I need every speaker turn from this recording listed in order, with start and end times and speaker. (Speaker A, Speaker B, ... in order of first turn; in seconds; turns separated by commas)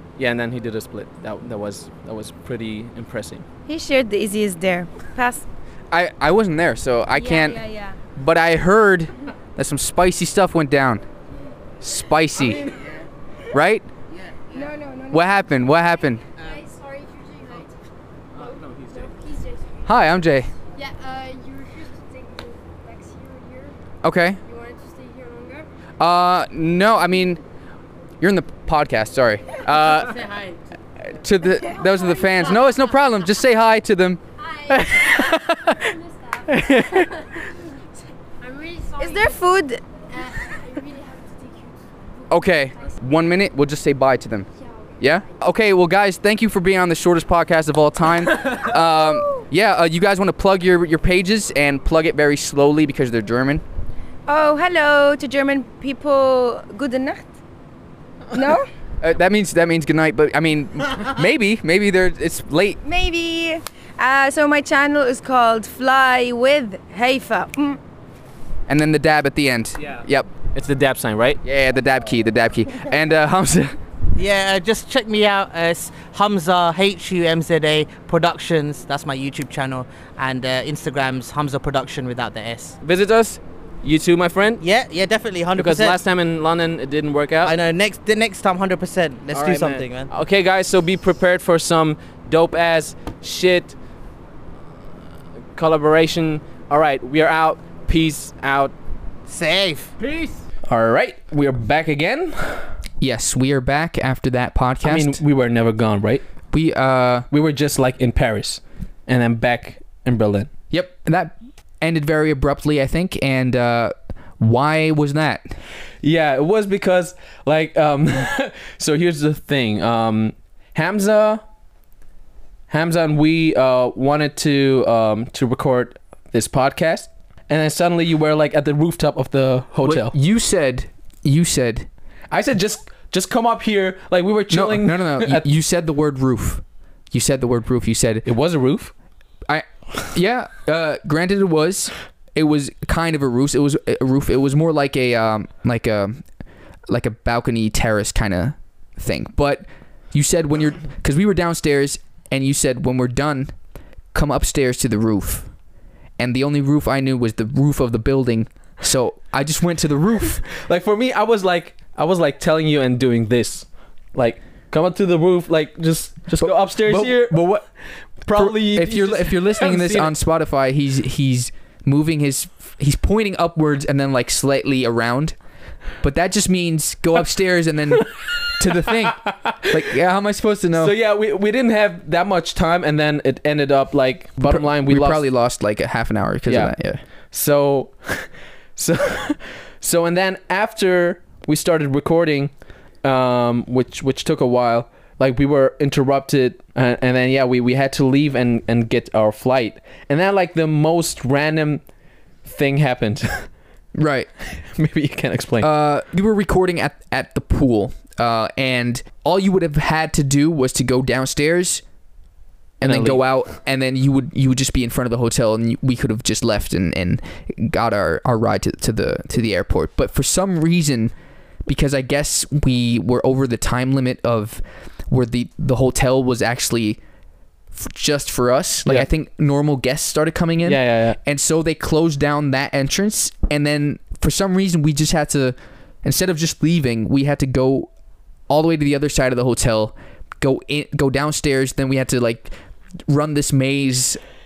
Speaker A: 0.2-3.5, Speaker B: 3.7-5.5, Speaker C: 5.9-7.6, Speaker B: 7.1-8.0, Speaker C: 8.2-11.0, Speaker C: 11.8-12.8, Speaker C: 13.5-13.9, Speaker B: 14.5-15.5, Speaker C: 15.1-16.2, Speaker D: 16.4-17.8, Speaker D: 18.3-23.8, Speaker C: 19.9-20.5, Speaker C: 24.0-24.4, Speaker D: 24.4-25.7, Speaker C: 26.0-27.4, Speaker C: 28.2-30.4, Speaker C: 31.0-34.2, Speaker D: 34.4-37.7, Speaker A: 34.8-35.6, Speaker A: 36.5-37.1, Speaker D: 38.4-39.4, Speaker B: 39.0-39.8, Speaker D: 40.1-43.4, Speaker C: 42.3-44.5, Speaker D: 44.5-45.4, Speaker C: 45.0-53.6, Speaker B: 48.8-49.5, Speaker B: 54.3-57.3, Speaker B: 58.3-58.7, Speaker C: 59.0-62.8, Speaker B: 62.8-67.8, Speaker C: 68.7-70.3, Speaker A: 70.5-71.4, Speaker C: 71.4-73.8, Speaker E: 74.2-82.8, Speaker A: 82.8-84.6, Speaker E: 84.6-86.0, Speaker A: 85.6-87.5, Speaker E: 87.4-90.1, Speaker A: 89.3-93.8, Speaker A: 95.5-98.7, Speaker E: 99.3-100.4, Speaker A: 100.7-102.7, Speaker C: 103.0-105.2, Speaker A: 104.8-106.2, Speaker C: 106.5-107.3, Speaker A: 107.3-110.5, Speaker C: 110.7-115.4, Speaker A: 116.0-121.4, Speaker A: 122.7-130.1, Speaker C: 129.8-131.9, Speaker A: 132.3-135.4, Speaker C: 134.5-138.2, Speaker A: 138.2-138.9, Speaker C: 139.5-146.2, Speaker C: 146.9-153.6, Speaker C: 154.1-155.5, Speaker C: 156.2-160.4, Speaker A: 160.4-167.6, Speaker C: 166.4-167.7, Speaker A: 168.2-170.1, Speaker C: 168.3-175.4, Speaker C: 176.0-180.9, Speaker A: 179.2-179.8, Speaker A: 180.7-185.2, Speaker C: 184.4-187.0, Speaker A: 186.5-186.8, Speaker A: 187.3-192.5, Speaker A: 193.0-201.8, Speaker A: 202.4-203.5, Speaker C: 203.9-204.3, Speaker A: 204.5-205.7, Speaker C: 205.6-211.8, Speaker C: 212.8-221.1, Speaker A: 212.8-213.2, Speaker C: 221.7-227.0, Speaker C: 227.7-237.9, Speaker A: 230.7-231.2, Speaker C: 238.5-242.5, Speaker C: 243.1-244.2